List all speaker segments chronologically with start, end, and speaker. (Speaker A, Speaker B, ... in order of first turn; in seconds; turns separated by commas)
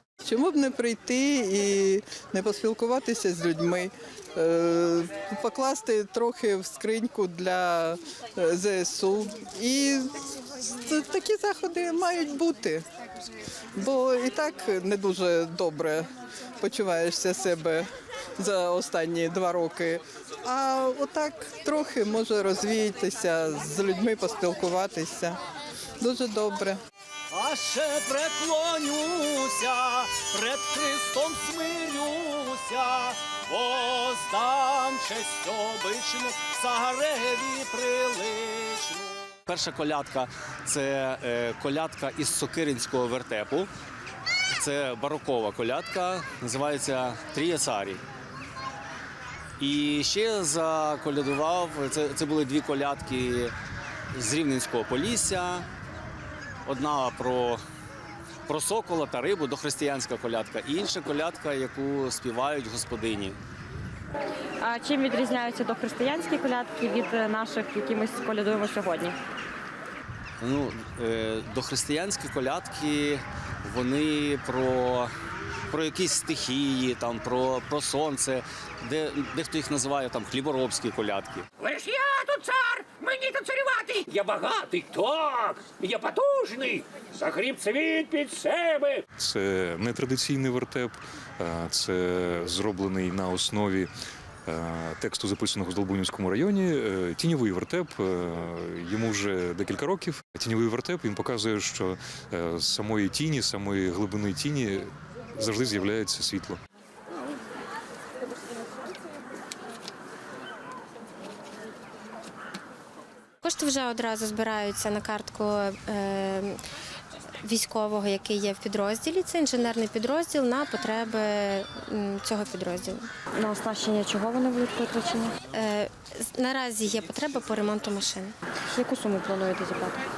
Speaker A: 0.2-10.2, Speaker A: 10.8-12.8, Speaker A: 13.8-16.1, Speaker A: 16.6-17.9, Speaker A: 18.4-25.4, Speaker A: 26.0-26.8, Speaker B: 27.3-43.7, Speaker B: 44.5-48.0, Speaker B: 49.6-53.5, Speaker B: 54.1-55.7, Speaker B: 56.6-57.6, Speaker B: 58.5-63.4, Speaker C: 64.6-69.2, Speaker B: 70.4-75.1, Speaker B: 75.7-81.5, Speaker D: 81.6-89.0, Speaker E: 89.2-93.9, Speaker E: 94.5-106.6, Speaker F: 113.4-116.6, Speaker F: 117.4-123.1, Speaker C: 123.4-125.4, Speaker F: 125.5-128.3, Speaker C: 128.7-130.0